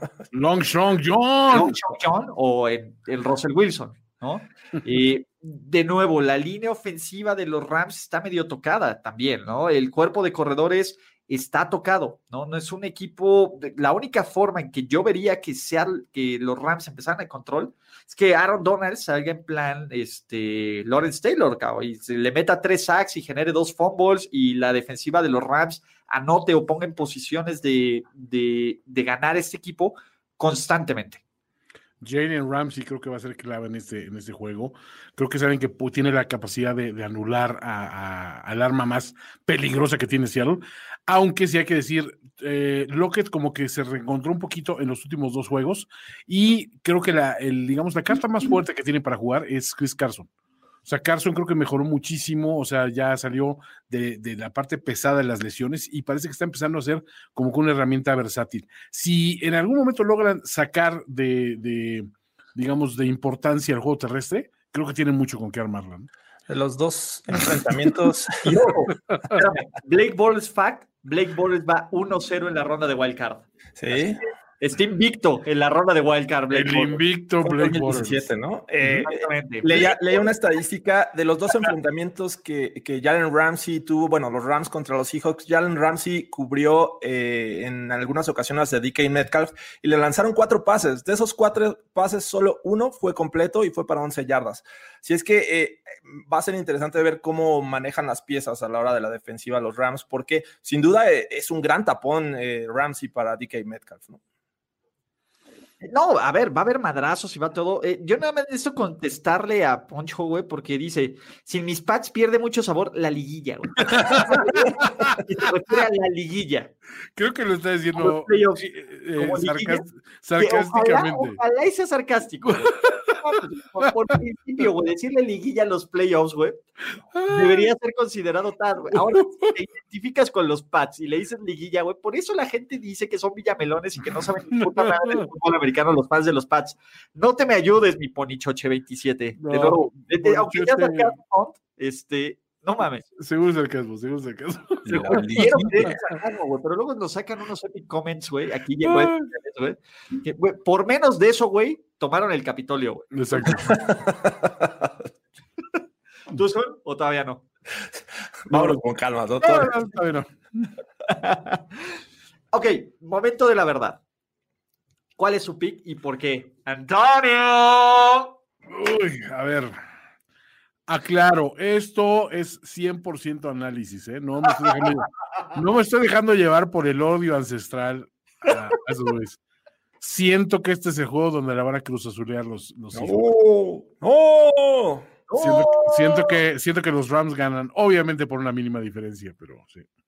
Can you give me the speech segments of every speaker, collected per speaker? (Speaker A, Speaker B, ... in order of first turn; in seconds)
Speaker A: 0.3-1.8, 32.0-50.3, 50.8-66.1, 76.5-78.3, 113.8-115.2, 117.2-121.4, 122.5-123.1, 127.1-127.7, 128.9-129.5, 134.6-135.3, 139.4-141.2, 143.2-145.9, 148.8-149.2, 153.1-153.8, 158.5-158.8, 159.4-160.7, 168.7-169.8, 170.9-179.4, 180.0-183.2, 185.4-189.8
Speaker B: 1.5-31.2, 68.4-74.0, 74.6-77.0, 79.0-80.2, 105.8-116.7, 118.0-126.6, 127.3-143.1, 144.9-153.6, 156.3-157.4, 161.1-161.6, 162.5-164.0, 165.2-168.3, 185.3-186.3
Speaker C: 66.5-68.7, 73.8-74.2, 77.4-104.2, 144.9-145.9, 153.7-154.7, 158.5-159.8, 182.9-185.1